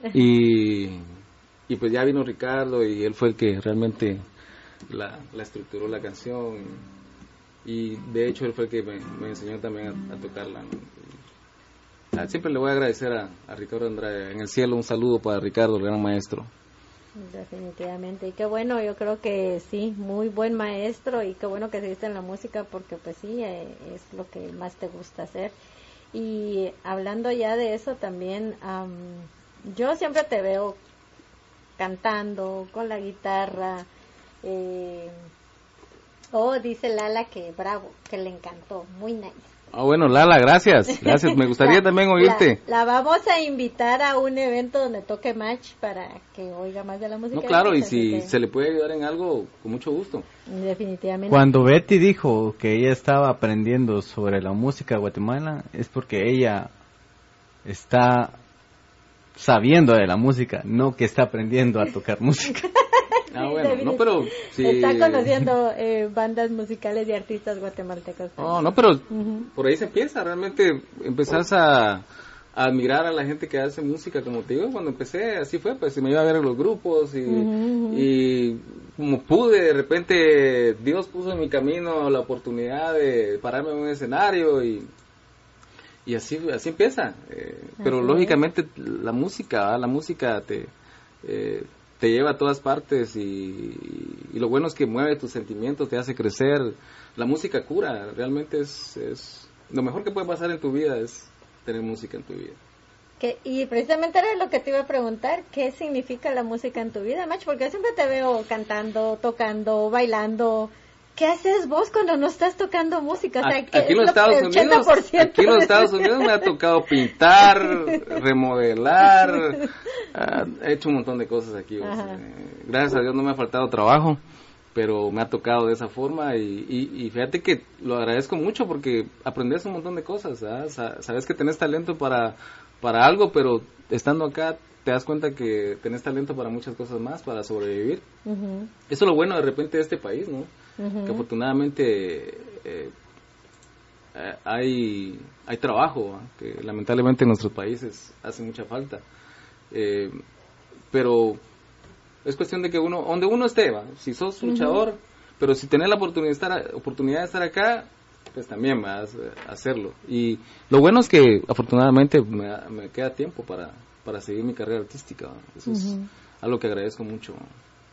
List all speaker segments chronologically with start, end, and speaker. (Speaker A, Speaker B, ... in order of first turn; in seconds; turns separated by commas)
Speaker A: 0.1-1.0, Speaker A: 1.7-4.2, Speaker A: 4.9-6.8, Speaker A: 7.6-10.9, Speaker A: 12.1-16.5, Speaker B: 17.2-25.5, Speaker B: 26.1-30.8, Speaker B: 31.8-33.9, Speaker B: 34.4-35.1, Speaker B: 36.3-39.5, Speaker A: 39.7-42.6, Speaker B: 41.0-48.3, Speaker A: 47.3-50.3, Speaker B: 50.5-51.5, Speaker C: 51.3-56.7, Speaker C: 57.6-58.4, Speaker C: 59.4-62.6, Speaker B: 63.0-69.5, Speaker A: 63.3-65.4, Speaker A: 68.4-72.0, Speaker A: 72.5-84.9, Speaker B: 77.3-78.1, Speaker A: 86.0-90.7, Speaker B: 87.8-88.4, Speaker A: 91.2-102.6, Speaker B: 103.2-116.5, Speaker A: 113.4-124.2, Speaker B: 117.6-118.1, Speaker B: 121.8-122.2, Speaker A: 124.7-138.0, Speaker B: 138.3-138.7, Speaker A: 138.9-140.5, Speaker B: 140.8-141.2, Speaker A: 141.1-142.9, Speaker A: 144.1-149.0, Speaker A: 149.7-150.2, Speaker A: 150.9-151.4, Speaker A: 152.2-167.4, Speaker B: 154.4-154.8, Speaker B: 165.7-166.1